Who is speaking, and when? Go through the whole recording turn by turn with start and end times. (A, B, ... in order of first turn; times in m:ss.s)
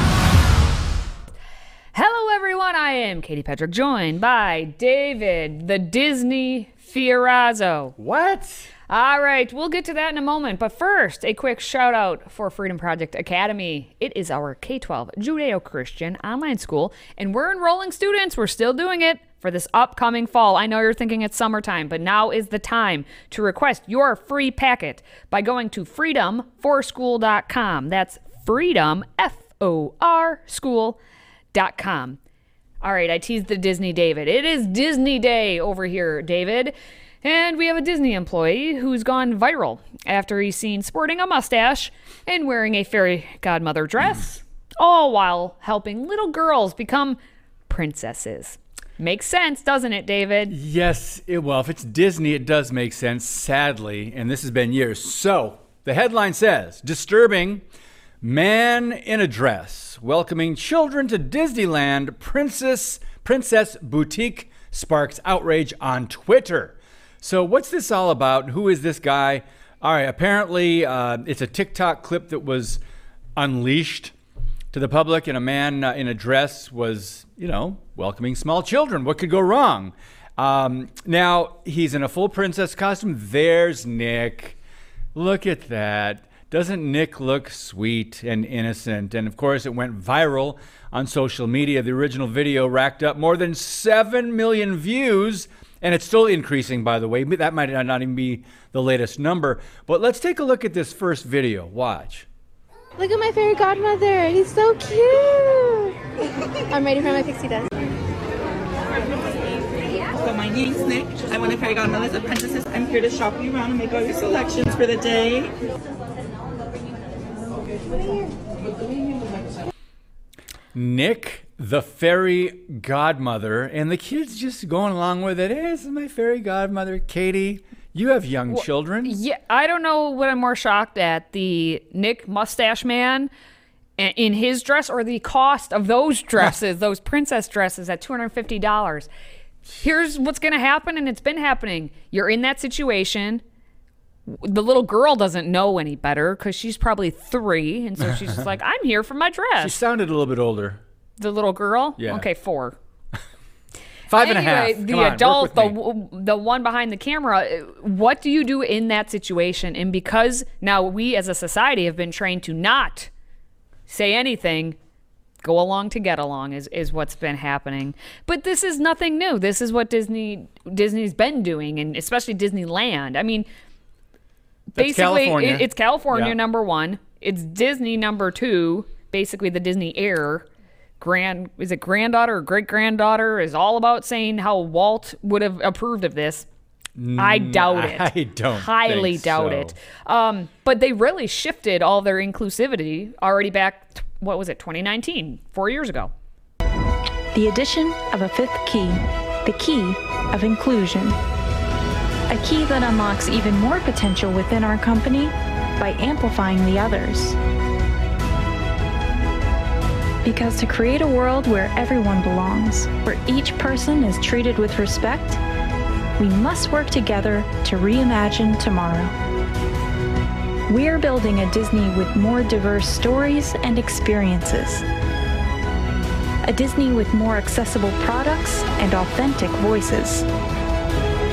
0:01.9-0:08.0 A
0:08.0-0:08.7 B
0:08.9-0:31.0 A
0:31.5-0:32.2 A
0:32.8-0:47.2 A
0:47.7-0:50.6 A
0:50.5-0:57.6 B
0:58.2-1:12.8 B
1:13.4-1:14.1 B
1:14.7-1:24.6 B
1:25.2-1:42.3 B
1:43.0-1:46.0 C
1:46.7-1:47.7 C
1:50.1-1:55.5 D
2:00.7-2:09.2 B
2:08.5-2:13.3 A
2:14.0-2:19.1 A
2:19.8-2:23.4 A
2:24.3-2:29.8 A
2:29.6-2:30.8 B
2:31.2-2:32.8 A
2:32.0-2:32.3 B
2:34.1-2:35.8 B
2:34.1-2:43.1 A
2:43.9-2:44.8 A
2:45.4-2:53.5 A
2:54.7-2:56.4 B
2:54.8-3:00.5 A
3:01.0-3:06.5 A
3:07.0-3:09.7 B
3:07.2-3:16.1 A
3:17.3-3:21.2 E
3:22.3-3:27.4 E
3:30.2-3:35.4 E
3:36.2-3:39.1 E
3:40.7-3:44.8 E
3:46.5-3:50.3 E